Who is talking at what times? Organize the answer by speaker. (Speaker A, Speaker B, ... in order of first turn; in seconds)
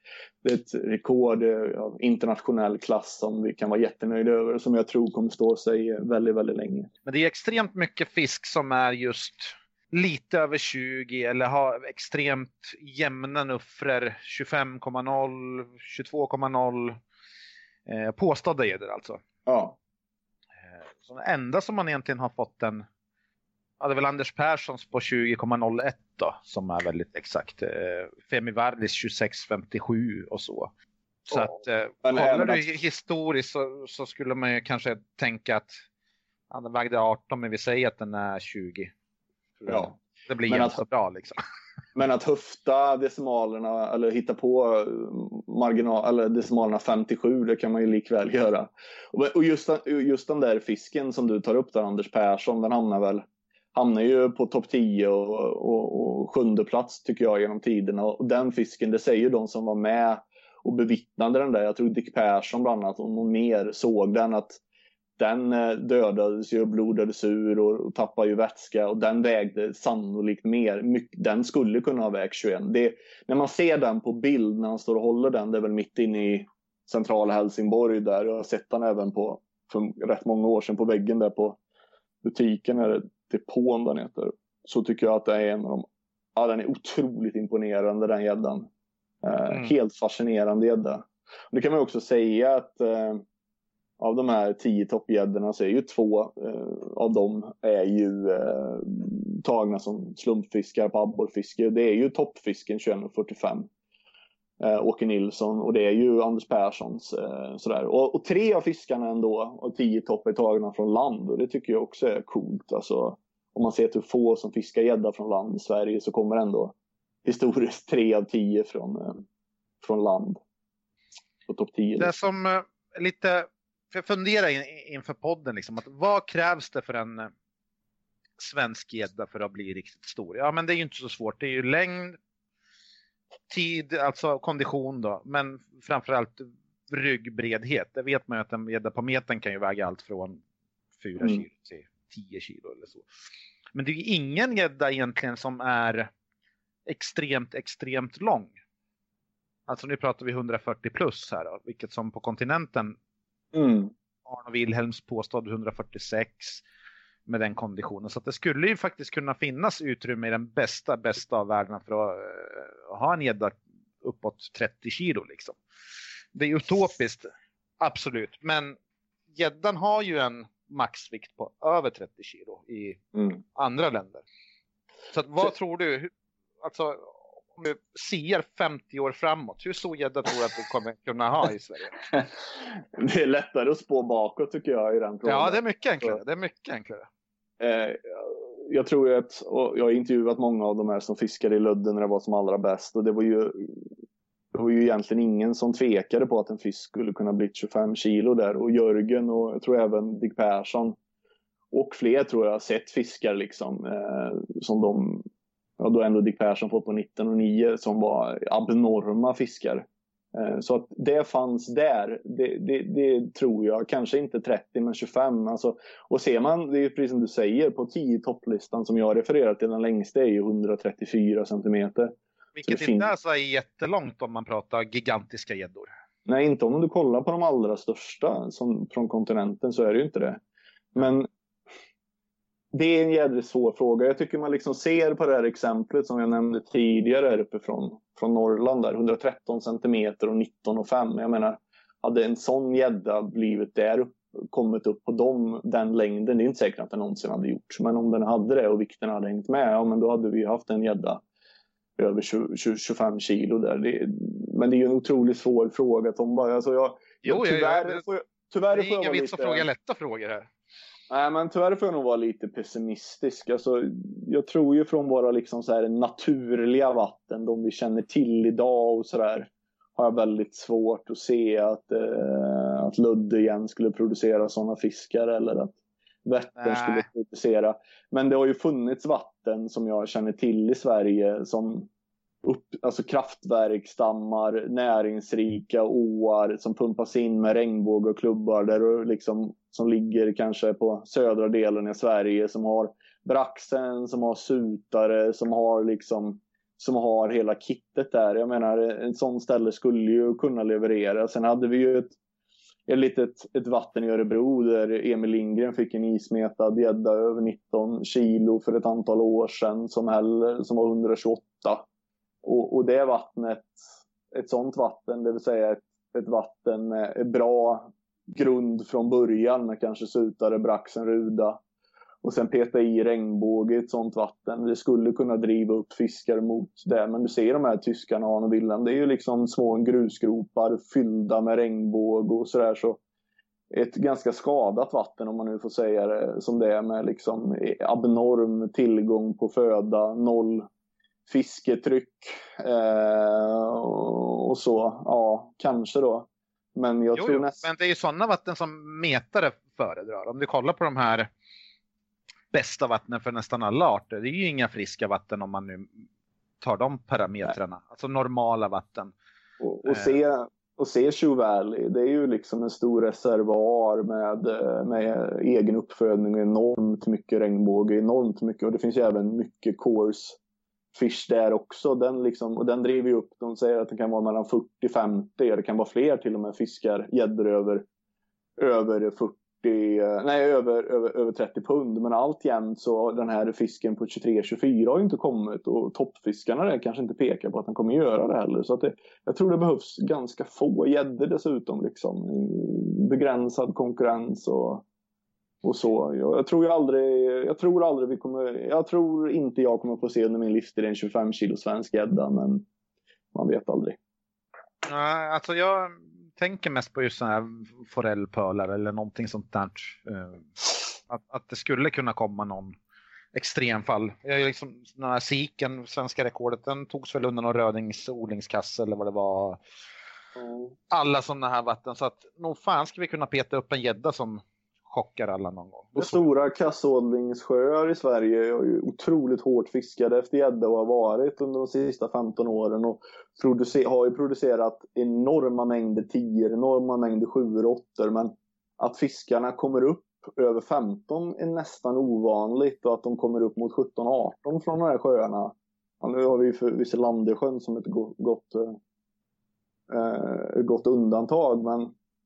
Speaker A: 0.4-6.9, 19.5-19.8, 32.0-32.7, 39.7-40.0, 40.5-40.8, 42.0-64.6, 65.2-81.6, 82.2-88.7, 89.2-93.2, 94.0-103.7, 104.6-116.7, 117.2-119.2, 119.8-120.4, 121.5-122.1, 153.5-153.9, 183.0-186.2, 187.6-193.8, 194.5-201.0, 201.7-205.2, 205.8-223.1, 226.3-230.4, 230.9-231.3, 232.7-251.2, 252.0-259.7, 261.1-281.9, 282.4-302.1, 302.9-311.9, 312.4-313.8, 314.3-321.6, 322.2-333.0, 333.7-340.7, 341.3-347.6, 359.6-370.4, 370.9-377.9, 378.6-394.8, 395.6-402.6, 403.3-404.0, 420.4-420.7, 426.0-448.8, 449.9-451.9
Speaker B: 7.0-17.0, 17.9-19.2, 20.9-22.9, 23.8-30.7, 31.3-35.7, 36.5-38.9, 39.6-41.4, 122.0-127.3, 128.4-132.2, 133.5-140.4, 141.0-143.1, 143.8-146.1, 146.9-148.5, 149.7-152.9, 154.3-156.6, 157.3-165.6, 166.3-167.3, 167.8-168.8, 169.3-174.2, 175.1-176.1, 176.6-182.0, 185.3-187.1, 222.6-225.9, 257.2-258.0, 258.7-260.5, 276.6-277.1, 347.1-351.3, 352.5-355.9, 356.6-359.1, 359.9-360.1, 404.9-410.5, 411.1-412.8, 413.4-419.6, 420.9-426.2